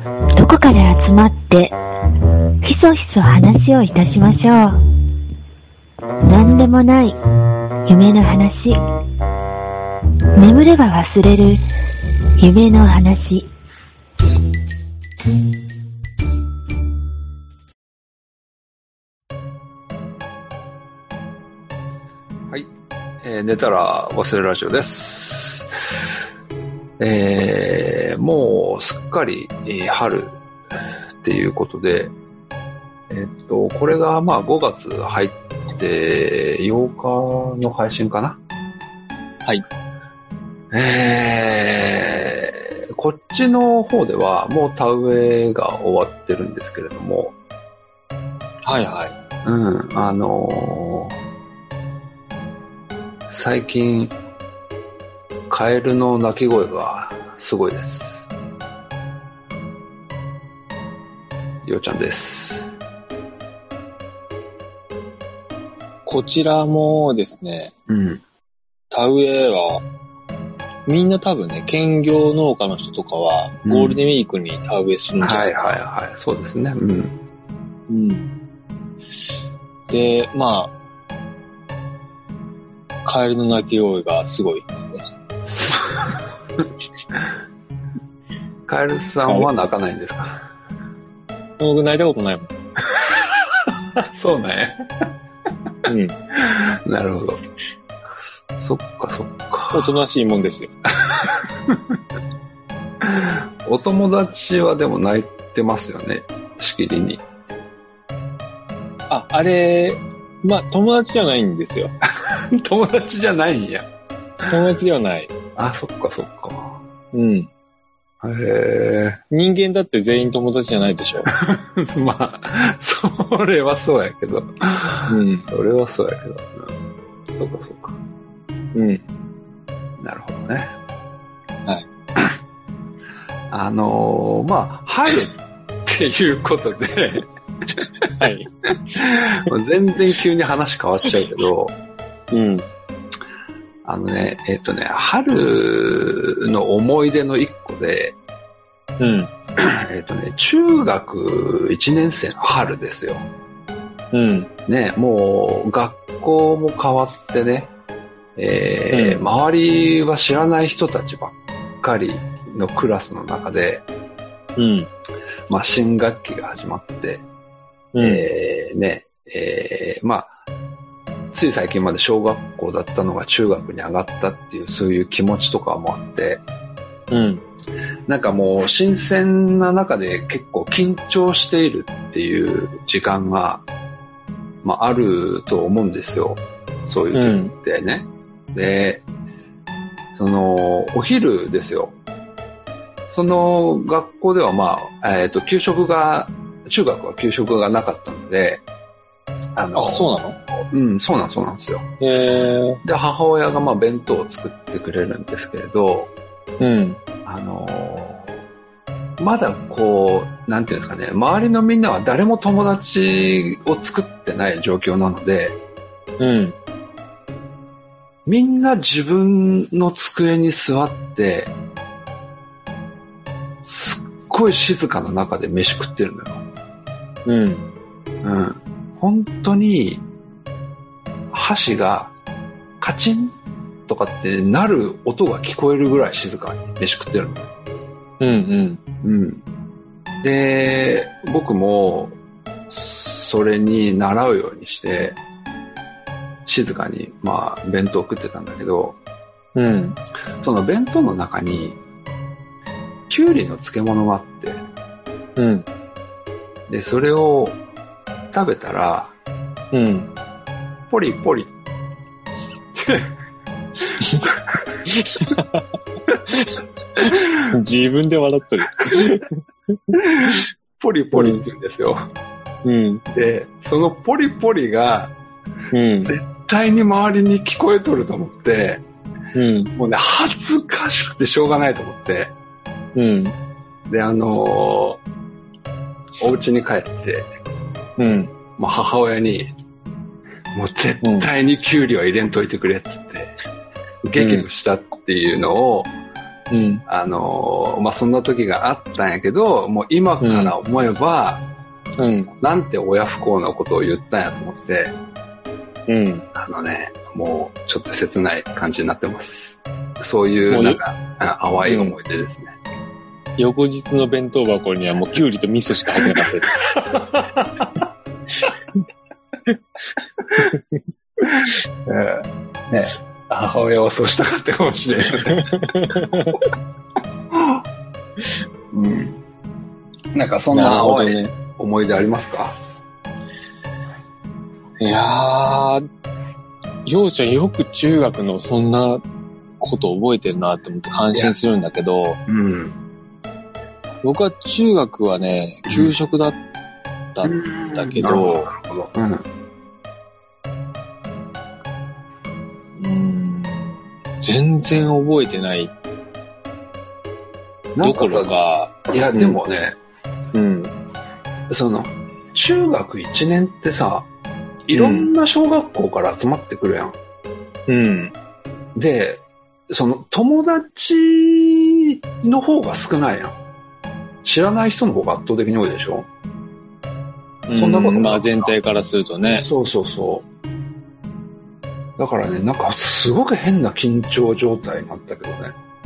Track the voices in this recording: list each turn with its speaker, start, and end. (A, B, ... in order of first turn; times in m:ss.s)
0:00.4-0:01.8 A
0:02.6-0:04.8 A
0:06.2-0:07.2 A
0:07.9-0:08.8 A
0:10.4-0:11.6 A
0:12.4-0:13.5 A
0:23.2-0:25.7 B
0:27.0-0:32.1 B
0:33.1-0:38.4 B
0:40.7-0:47.4 B
0:48.6-0:49.1 C
0:49.4-0:51.2 B
0:53.3-0:54.1 B
0:55.5-0:58.3 B
1:01.6-1:02.7 B
1:06.0-1:07.7 C
1:07.9-1:08.2 B
1:08.9-1:09.8 C
1:10.8-1:15.8 C
1:13.6-1:14.0 B
1:15.2-1:17.1 B
1:17.9-1:18.3 C
1:19.9-1:20.7 C
1:23.0-1:25.0 C
1:25.7-1:26.2 B
1:28.7-1:30.4 B
1:31.6-1:32.5 C
1:32.9-1:35.1 B
1:35.8-1:36.2 C
1:36.4-1:37.4 B
1:38.6-1:40.0 B
1:39.7-1:40.7 C
1:41.0-1:42.0 B
1:43.0-1:47.2 B
1:49.1-1:51.9 C
1:52.2-1:53.9 B
1:54.5-1:55.3 C
1:55.6-1:56.8 B
1:57.1-1:57.5 C
1:58.2-1:59.2 B
1:59.3-2:01.3 C
2:01.3-2:06.7 B
2:05.1-2:05.5 C
2:07.3-2:08.0 B
2:08.7-2:09.0 C
2:10.0-2:10.7 B
2:13.5-2:21.8 B
2:18.2-2:19.2 C
2:22.3-2:22.7 C
2:23.8-2:28.2 B
2:29.0-2:29.3 C
2:29.6-2:33.2 B
2:34.1-2:34.5 C
2:34.7-2:37.7 B
2:38.4-2:43.8 B
2:38.9-2:39.3 C
2:44.6-2:44.9 C
2:45.5-2:47.2 B
2:47.9-2:48.3 C
2:48.0-2:50.3 B
2:51.3-2:56.4 B
2:57.1-2:57.4 C
2:58.1-3:03.6 B
3:04.6-3:09.0 B
3:07.1-3:07.5 C
3:10.1-3:12.0 B
3:13.1-3:18.6 B
3:19.6-3:21.9 B
3:19.7-3:20.4 C
3:22.0-3:22.8 C
3:22.8-3:26.1 B
3:26.6-3:27.0 C
3:27.2-3:28.3 B
3:29.2-3:35.6 B
3:36.2-3:36.6 C
3:38.2-3:41.5 B
3:43.6-3:46.4 B
3:47.2-3:47.6 C
3:48.2-3:50.0 B
3:51.3-3:52.1 B
3:52.8-3:53.4 B
3:53.9-3:57.5 B
3:58.2-3:58.8 C
3:59.0-3:59.4 B
4:00.2-4:02.2 B
4:02.7-4:05.2 B
4:06.4-4:09.0 B
4:09.5-4:10.0 C
4:10.4-4:11.8 B
4:13.1-4:14.6 B
4:15.4-4:15.7 C
4:16.7-4:17.6 B
4:18.3-4:19.1 B
4:19.7-4:20.1 C
4:20.9-4:21.5 B
4:22.7-4:23.1 B
4:24.2-4:24.9 B
4:25.1-4:25.6 C
4:27.0-4:29.4 C
4:29.9-4:30.4 C
4:30.0-4:32.0 B
4:31.1-4:31.4 C
4:32.6-4:33.0 C
4:33.1-4:35.1 B
4:35.7-4:36.2 C
4:36.0-4:38.8 B
4:39.3-4:39.7 C
4:39.7-4:42.3 B
4:42.9-4:43.4 C
4:43.9-4:45.0 B
4:46.2-4:47.3 B
4:48.0-4:48.3 C
4:48.6-4:49.5 B
4:50.5-4:53.3 B
4:51.0-4:51.3 C
4:54.0-4:55.9 B
4:54.2-4:54.5 C
4:56.5-4:56.8 C
4:56.9-5:01.4 B
5:00.2-5:00.5 C
5:02.0-5:02.3 C
5:02.4-5:04.9 B
5:05.9-5:06.2 C
5:06.3-5:12.5 B
5:10.5-5:10.8 C
5:11.6-5:12.0 C
5:13.4-5:16.5 C
5:16.1-5:17.8 B
5:21.8-5:26.5 B
5:25.4-5:26.4 C
5:27.3-5:27.6 B
5:28.7-5:29.2 B
5:30.1-5:32.6 B
5:30.5-5:31.2 C
5:34.8-5:35.9 C
5:36.8-5:39.0 C
5:39.6-5:42.2 C
5:42.3-5:42.8 B
5:44.0-5:46.4 C
5:45.6-5:45.9 B
5:47.1-5:48.5 C
5:47.2-5:49.2 B
5:52.8-5:55.7 C
5:57.7-5:58.3 B
5:57.8-5:59.4 C
5:58.9-5:59.8 B
6:00.3-6:00.7 C
6:01.5-6:04.1 B
6:04.7-6:07.0 B
6:04.7-6:05.1 C
6:07.7-6:08.1 C
6:08.7-6:13.4 B
6:14.2-6:16.1 B
6:17.5-6:19.5 C
6:17.5-6:18.5 B
6:19.3-6:20.2 B
6:22.0-6:25.5 B